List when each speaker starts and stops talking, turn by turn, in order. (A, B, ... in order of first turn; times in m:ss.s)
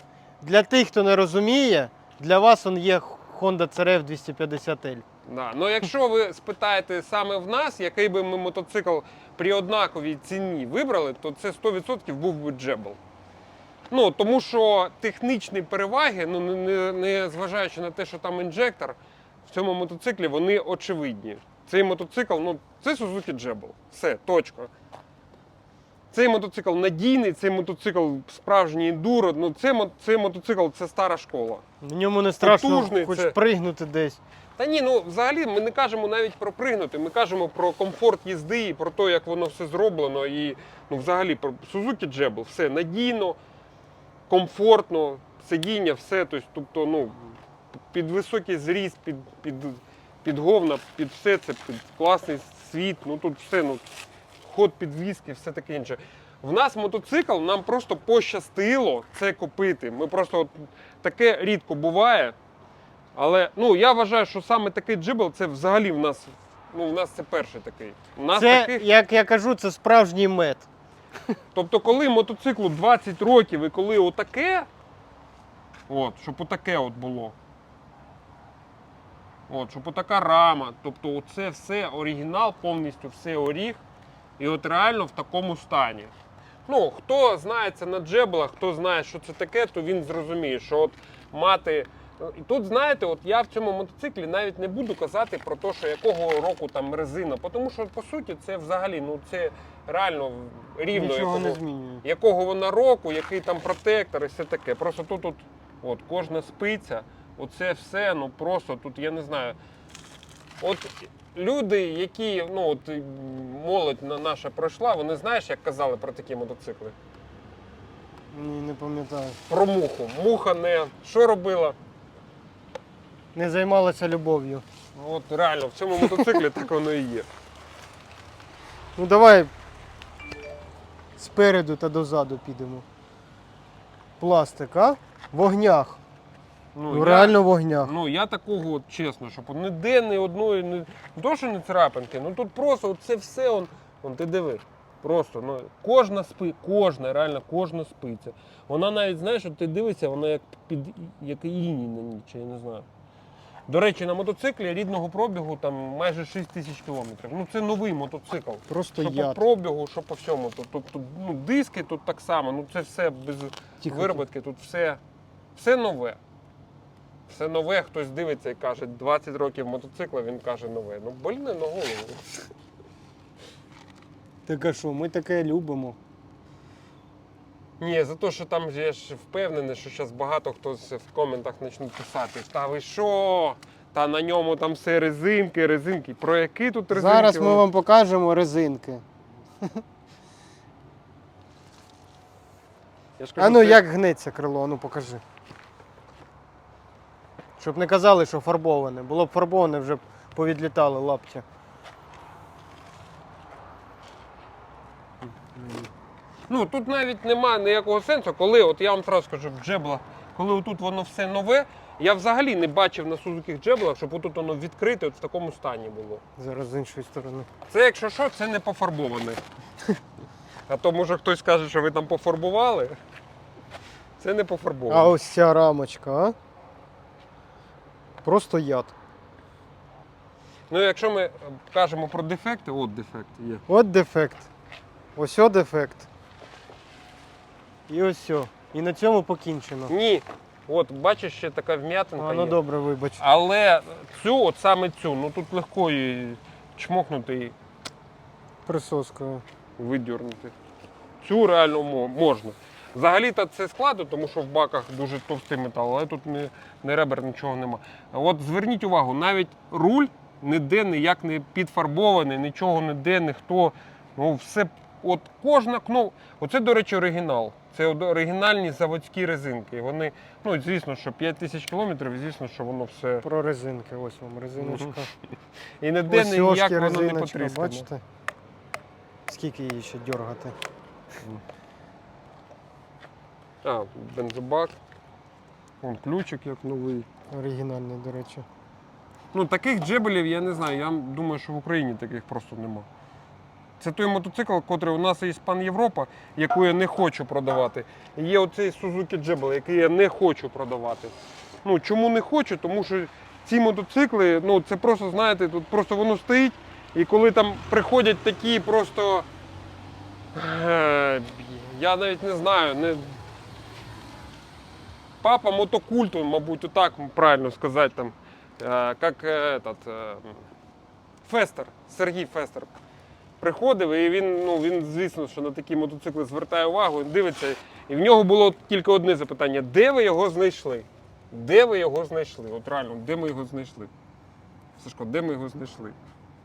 0:00.4-0:05.0 A
0:05.2-0:13.0 B
0:13.9-0:24.7 B
0:26.1-0:31.6 B
0:31.8-0:34.2 A
0:32.4-0:33.4 B
0:34.6-0:43.4 B
0:44.3-1:02.4 B
1:03.1-1:08.8 B
1:08.3-1:10.7 A
1:11.5-1:14.7 B
1:15.9-1:17.4 B
1:19.5-1:23.8 B
1:24.4-1:26.1 B
1:26.6-1:49.6 B
1:40.9-1:42.0 A
1:50.6-1:56.9 B
1:58.3-1:59.4 A
1:59.5-2:01.8 B
2:03.3-2:04.6 A
2:04.9-2:07.3 B
2:09.0-2:09.5 A
2:11.2-2:12.8 A
2:14.2-2:16.0 A
2:16.7-2:32.9 B
2:16.9-2:17.9 A
2:33.7-2:45.0 B
2:38.7-2:39.4 A
2:43.8-2:44.2 A
2:45.5-2:46.2 B
2:47.3-2:52.4 B
2:54.4-2:56.0 A
2:57.8-3:07.6 B
3:06.9-3:09.0 A
3:13.2-3:13.8 B
3:13.4-3:15.2 A
3:17.6-3:21.4 A
3:25.4-3:25.9 A
3:26.5-3:36.2 B
3:36.4-3:37.5 A
3:37.7-3:39.4 B
3:40.7-3:43.0 B
3:44.2-3:45.1 B
3:44.9-3:46.4 A
3:48.2-3:48.9 A
3:50.7-3:53.6 B
3:53.7-3:54.5 A
3:55.2-3:56.1 A
3:57.9-3:59.9 A
3:59.9-4:02.6 B
4:02.2-4:03.2 A
4:03.2-4:07.5 B
4:08.6-4:09.4 A
4:09.8-4:10.5 B
4:11.2-4:33.2 B
4:33.2-4:35.1 A
4:34.6-4:35.0 B
4:35.8-4:37.9 B
4:36.1-4:38.0 A
4:39.3-4:40.5 A
4:43.6-4:44.8 B
4:45.8-4:47.0 B
4:47.3-4:48.4 A
4:49.3-4:52.9 B
4:53.8-5:09.3 B
5:10.3-5:13.2 B
5:15.2-5:20.5 B
5:21.2-5:22.7 B
5:23.4-5:33.9 B
5:34.8-5:36.0 B